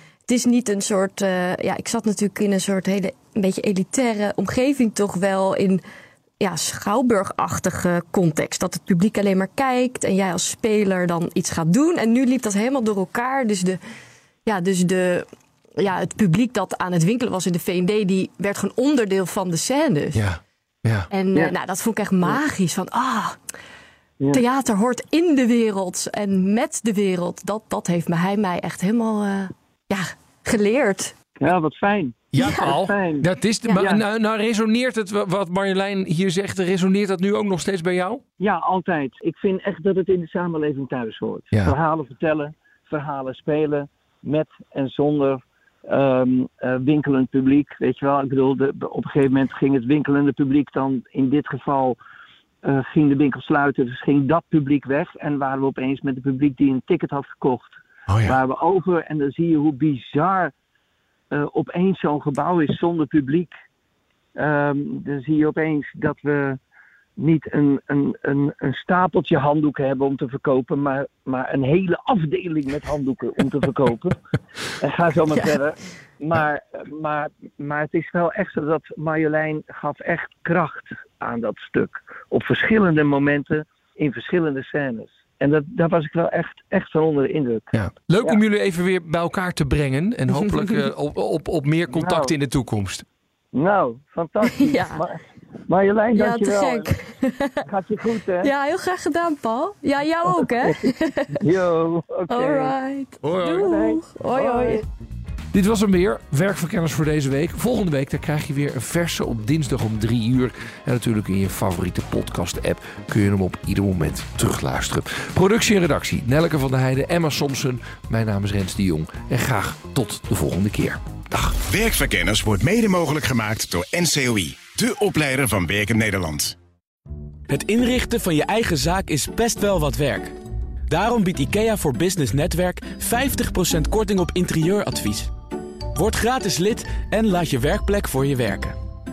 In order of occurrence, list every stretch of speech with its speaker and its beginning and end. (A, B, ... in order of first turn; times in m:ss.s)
0:00.3-0:05.8 A
0:06.4-0:13.8 A
0:14.5-0:20.2 A
0:20.1-0:21.1 B
0:21.1-0:23.4 A
0:24.3-0:31.1 A
0:31.4-0:34.0 C
0:32.3-0:38.2 B
0:32.4-0:32.7 A
0:38.4-0:52.0 C
0:52.6-1:00.5 C
0:58.1-0:58.4 B
1:01.3-1:03.5 C
1:04.4-1:06.6 C
1:07.2-1:14.2 C
1:14.8-1:28.4 C
1:27.7-1:33.1 B
1:31.9-1:32.4 C
1:33.5-1:35.2 C
1:34.4-1:35.0 A
1:35.7-1:36.9 C
1:36.1-1:37.6 A
1:37.7-1:38.5 C
1:38.4-1:41.4 A
1:40.3-1:42.8 C
1:42.3-1:44.8 A
1:43.2-1:43.8 B
1:43.4-1:44.8 C
1:45.5-2:01.6 B
2:01.6-2:06.6 D
2:07.5-2:10.4 E
2:10.9-2:15.3 E
2:16.0-2:18.8 E